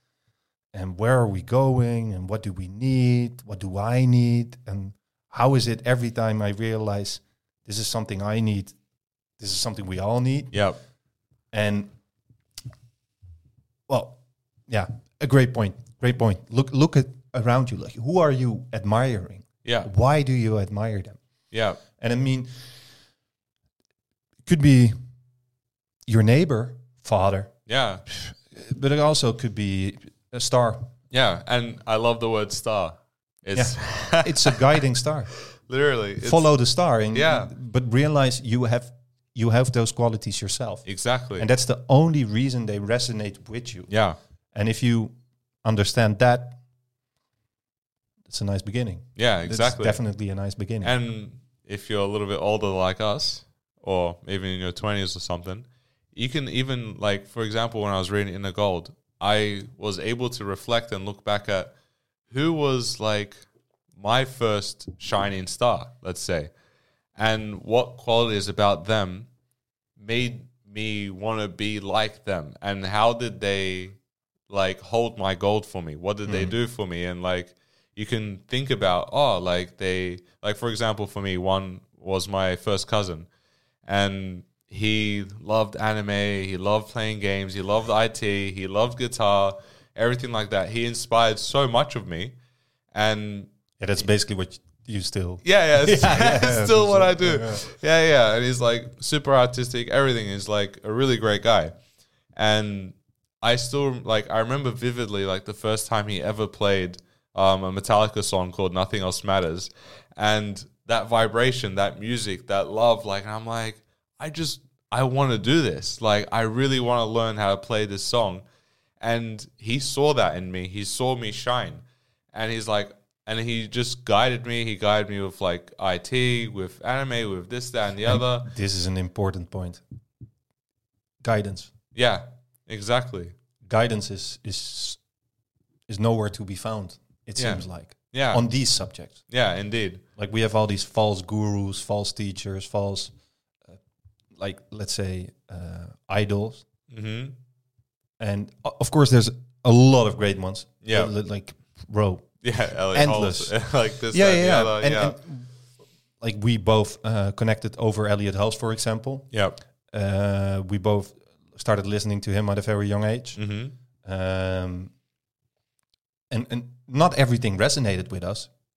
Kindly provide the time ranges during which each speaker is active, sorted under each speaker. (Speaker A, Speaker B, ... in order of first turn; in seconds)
Speaker A: 0.7-8.8, 9.4-10.6, 11.5-11.9, 13.9-21.2, 22.0-22.5, 24.5-24.9, 26.1-27.5, 28.1-30.9, 33.5-35.3, 36.2-43.9, 44.5-46.6, 48.3-50.9, 76.3-76.5, 93.8-97.6, 128.1-129.8, 131.2-131.7, 133.7-135.0, 135.9-139.2, 140.2-143.1, 144.3-146.7, 148.2-152.3, 152.9-153.6, 154.1-155.5, 156.2-159.3, 159.9-163.4, 164.0-164.9, 166.3-168.5
Speaker B: 10.5-10.8, 21.5-21.8, 27.7-28.1, 31.1-34.6, 35.6-36.5, 37.1-37.5, 40.9-41.5, 43.9-44.2, 49.2-50.0, 50.8-61.7, 62.3-63.4, 64.0-66.5, 67.2-69.3, 70.0-74.0, 74.5-83.3, 83.8-92.3, 92.9-93.5, 95.4-101.7, 102.4-118.4, 119.0-128.5, 131.9-133.3, 137.4-138.4, 139.3-140.0, 146.9-147.3, 150.8-151.1, 152.4-155.2, 159.3-159.6, 163.4-163.8